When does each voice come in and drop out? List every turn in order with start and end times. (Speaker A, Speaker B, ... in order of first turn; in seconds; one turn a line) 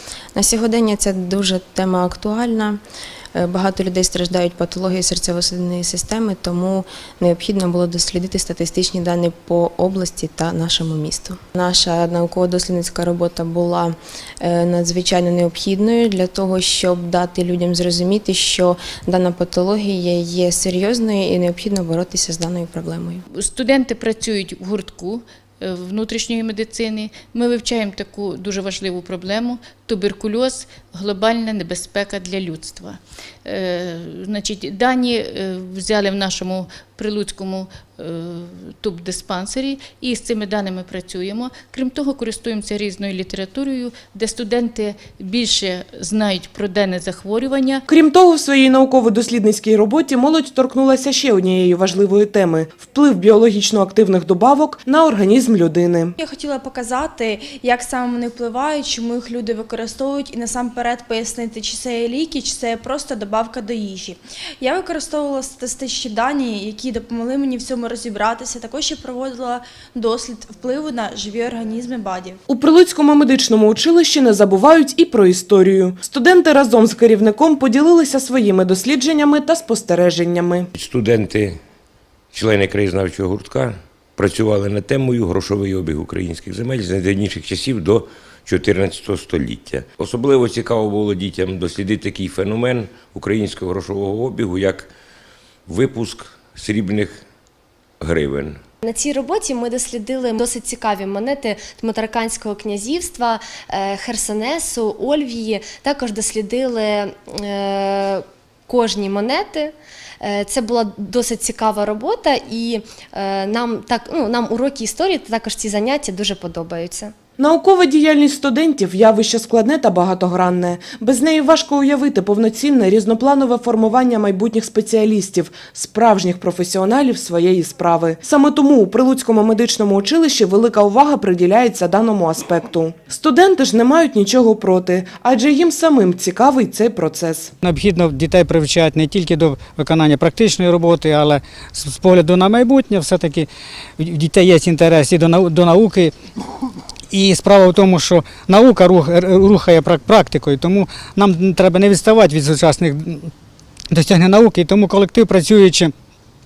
Speaker A: 0.3-2.8
Speaker A: 3.3-23.2
Speaker B: 23.4-32.9
Speaker B: 34.2-38.1
Speaker B: 38.8-47.8
Speaker C: 47.9-56.1
Speaker D: 56.2-72.4
Speaker C: 72.5-80.7
Speaker E: 80.8-81.6
Speaker E: 82.3-94.9
Speaker E: 95.7-97.2
Speaker E: 98.0-98.6
Speaker F: 98.8-117.1
Speaker C: 117.4-137.5
Speaker G: 137.6-143.5
Speaker G: 144.0-146.1
Speaker G: 147.1-153.3
Speaker G: 153.9-155.9